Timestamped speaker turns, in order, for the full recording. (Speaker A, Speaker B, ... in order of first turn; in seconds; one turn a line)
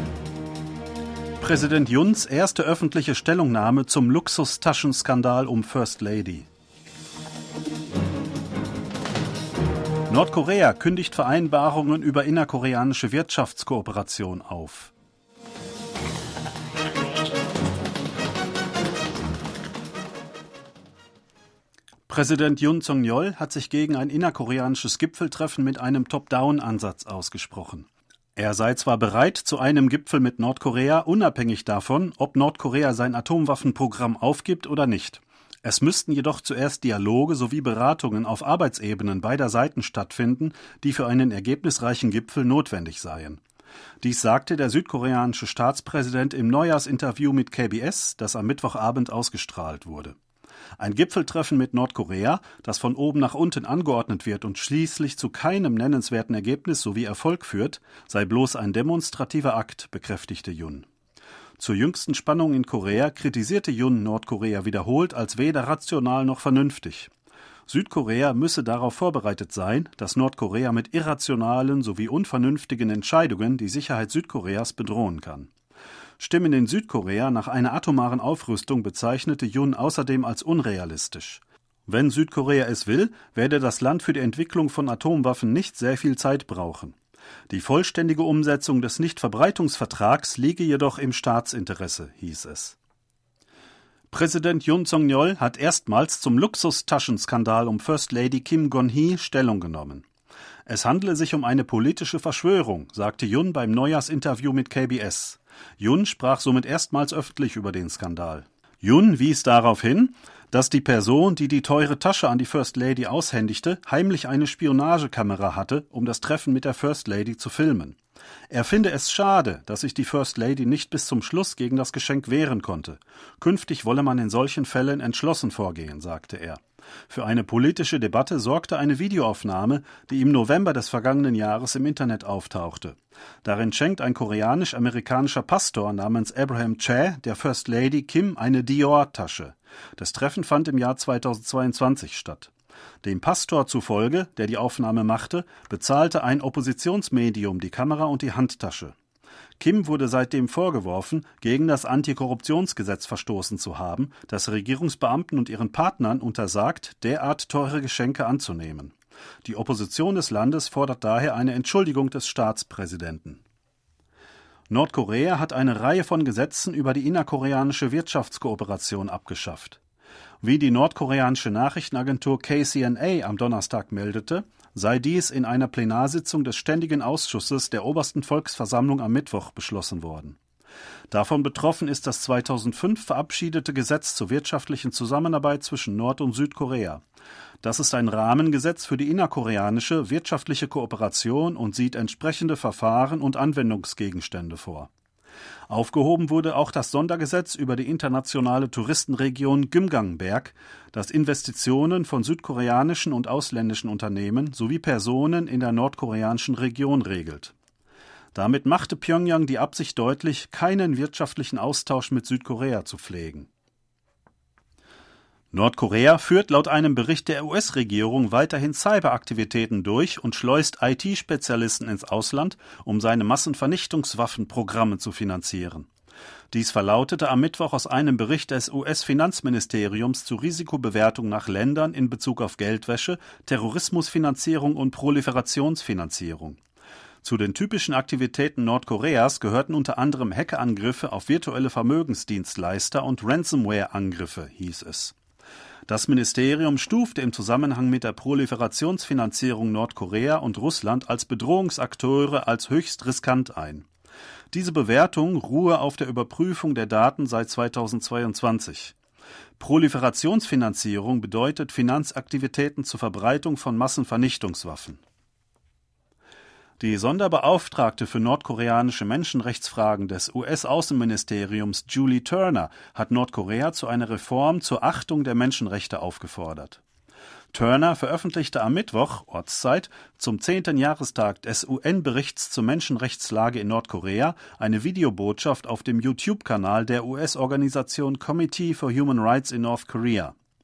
Speaker A: 1.4-6.5
Speaker A: 10.1-14.9
Speaker A: 22.1-43.4
Speaker A: 44.0-50.2
Speaker A: 50.8-60.9
Speaker A: 61.6-67.1
Speaker A: 67.7-75.5
Speaker A: 76.2-87.0
Speaker A: 87.5-92.8
Speaker A: 94.1-100.0
Speaker A: 100.7-118.0
Speaker A: 118.5-142.5
Speaker A: 143.0-148.9
Speaker A: 149.6-163.4
Speaker A: 164.7-169.8
Speaker A: 170.4-180.4
Speaker A: 181.1-187.0
Speaker A: 187.6-194.9
Speaker A: 195.7-207.5
Speaker A: 208.3-213.5
Speaker A: 215.5-225.9
Speaker A: 226.5-236.6
Speaker A: 237.2-245.2
Speaker A: 245.9-253.9
Speaker A: 254.5-259.0
Speaker A: 259.6-265.0
Speaker A: 266.8-276.8
Speaker A: 277.5-290.4